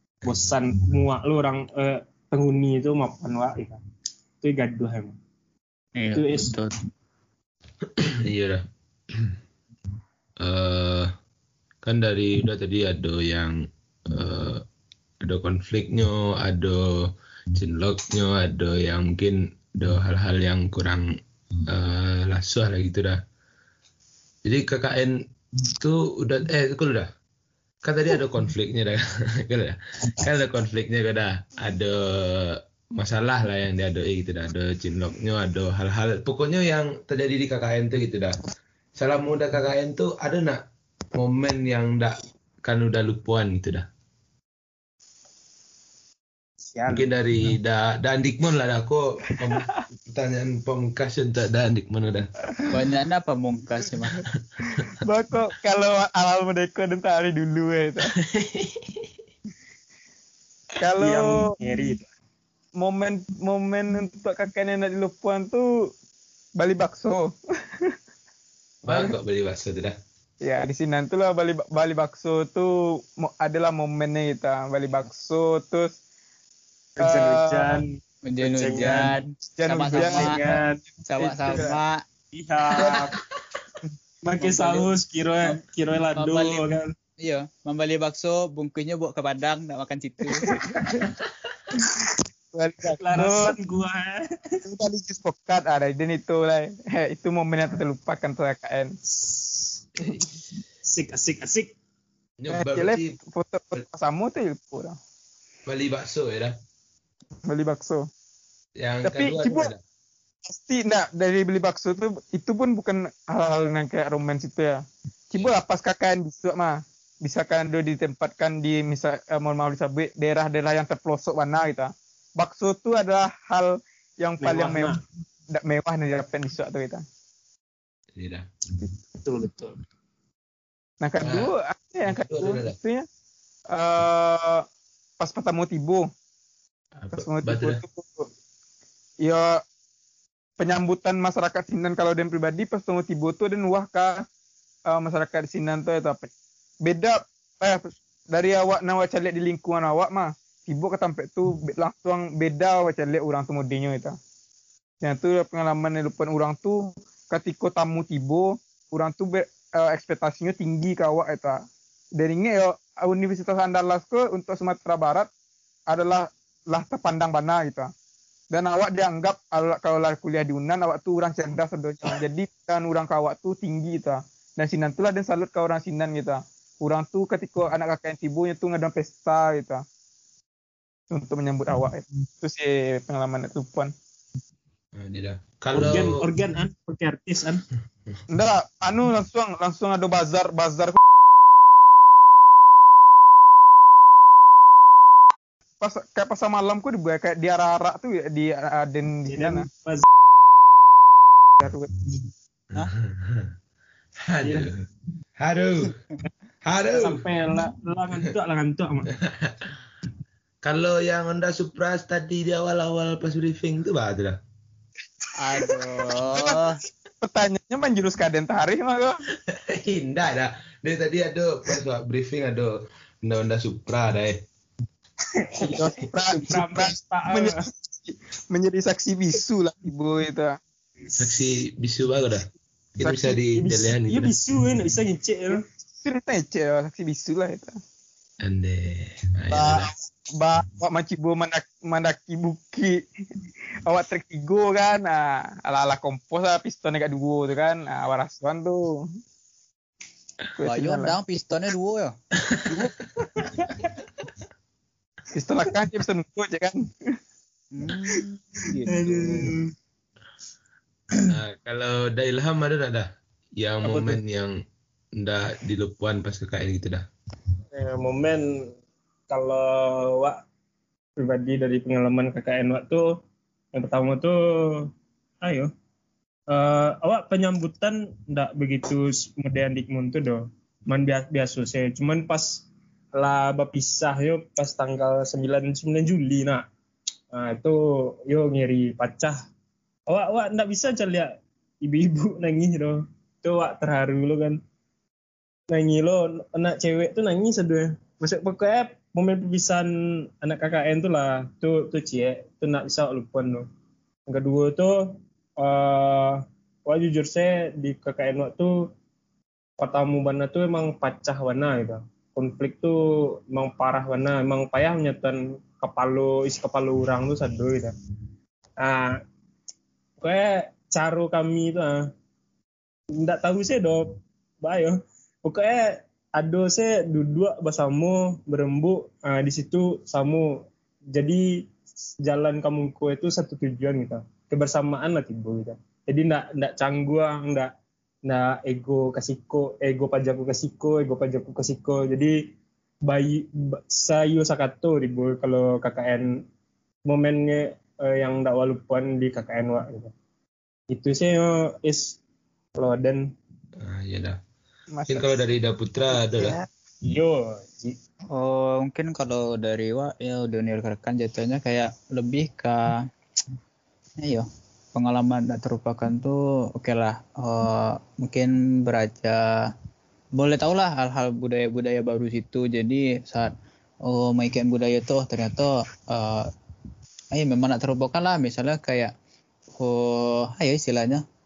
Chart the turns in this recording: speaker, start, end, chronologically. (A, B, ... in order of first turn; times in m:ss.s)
0:00.2-0:03.8 A
0:04.4-0:05.1 A
0:06.0-0:06.7 B
0:06.1-0:06.5 A
0:08.0-0:09.3 C
0:10.4-0:11.1 C
0:11.8-0:14.6 C
0:15.2-0:23.2 C
0:24.4-0:27.1 C
0:27.8-0:38.4 C
0:39.0-0:40.6 C
0:41.1-0:43.9 C
0:46.6-0:47.1 A
0:46.9-0:52.3 C
0:49.5-0:49.8 D
0:52.7-0:54.2 B
0:54.8-0:58.1 D
0:58.2-0:59.1 C
1:00.8-1:01.5 D
1:01.0-1:02.1 A
1:02.8-1:05.9 D
1:06.6-1:07.9 D
1:08.8-1:10.0 C
1:08.9-1:09.2 D
1:10.4-1:16.0 D
1:17.0-1:19.1 A
1:17.0-1:17.8 D
1:18.2-1:20.4 B
1:19.6-1:20.6 D
1:19.9-1:21.7 A
1:21.0-1:22.0 B
1:21.4-1:21.7 D
1:22.3-1:23.1 A
1:22.8-1:23.1 D
1:24.2-1:26.9 A
1:24.4-1:24.9 B
1:26.2-1:26.7 B
1:27.2-1:30.6 B
1:30.4-1:31.1 D
1:32.0-1:33.5 D
1:33.0-1:34.6 A
1:34.6-1:38.9 D
1:39.1-1:39.8 A
1:40.0-1:40.2 C
1:40.8-1:41.7 A
1:42.4-1:43.2 C
1:42.5-1:45.0 D
1:45.7-1:46.5 C
1:47.5-1:48.1 D
1:48.8-1:49.8 C
1:49.0-1:49.7 D
1:50.5-2:05.0 D
2:04.4-2:05.0 A
2:05.5-2:07.0 D
2:08.1-2:08.5 C
2:09.2-2:09.8 A
2:11.0-2:13.0 D
2:11.2-2:11.5 C
2:12.1-2:12.7 C
2:13.7-2:14.6 D
2:15.2-2:16.1 D
2:17.0-2:17.8 C
2:17.1-2:18.3 D
2:19.2-2:19.6 D
2:20.6-2:24.2 D
2:24.9-2:26.3 D
2:26.8-2:34.2 D
2:35.0-2:41.6 D
2:42.2-2:45.3 D
2:45.9-2:47.9 D
2:48.5-2:59.8 D
3:01.1-3:03.9 D
3:04.9-3:06.2 C
3:05.7-3:07.6 A
3:08.3-3:11.0 D
3:15.8-3:19.6 D
3:19.3-3:20.0 A
3:21.6-3:21.9 D
3:22.8-3:23.5 C
3:24.2-3:24.8 C
3:24.4-3:24.7 A
3:25.4-3:25.9 C
3:26.6-3:27.2 C
3:26.9-3:29.1 A
3:29.2-3:29.7 C
3:30.6-3:34.4 C
3:35.4-3:36.8 B
3:37.2-3:39.2 D
3:39.5-3:44.4 C
3:45.3-3:47.6 A
3:45.7-3:50.6 D
3:51.1-3:54.3 C
3:53.0-3:53.4 D
3:53.5-3:55.6 A
3:55.5-3:57.8 D
3:58.4-3:59.9 C
3:59.5-4:03.0 D
4:03.8-4:09.0 D
4:10.6-4:11.2 D
4:10.6-4:12.1 B
4:12.4-4:12.9 C
4:12.7-4:13.8 A
4:15.3-4:17.2 D
4:17.7-4:19.5 B
4:18.9-4:19.7 A
4:21.3-4:24.6 C
4:23.8-4:24.2 A
4:25.2-4:27.0 C
4:27.7-4:28.7 A
4:29.3-4:30.4 A
4:31.2-4:33.2 A
4:33.7-4:34.9 A
4:35.4-4:35.7 A
4:36.5-4:42.6 A
4:43.2-4:46.6 A
4:47.3-4:49.4 A
4:50.1-4:54.6 A
4:55.7-4:59.9 A
5:00.4-5:03.6 A
5:04.3-5:08.8 A
5:09.8-5:13.0 A
5:13.5-5:17.9 A
5:18.8-5:19.2 A
5:20.2-5:22.0 A
5:23.2-5:30.5 A
5:31.1-5:31.5 A
5:32.2-5:37.7 A
5:38.2-5:42.4 A
5:43.0-5:46.3 A
5:47.0-5:50.1 A
5:50.9-5:52.2 A
5:52.8-5:53.3 A
5:53.8-5:54.4 C
5:54.9-5:55.4 D
5:55.1-5:56.6 C
5:56.3-5:56.6 D
5:57.0-5:58.0 A
5:58.3-6:03.1 B
6:04.2-6:09.4 B
6:10.4-6:13.5 B
6:14.0-6:16.5 B
6:17.3-6:19.1 B
6:19.8-6:21.2 B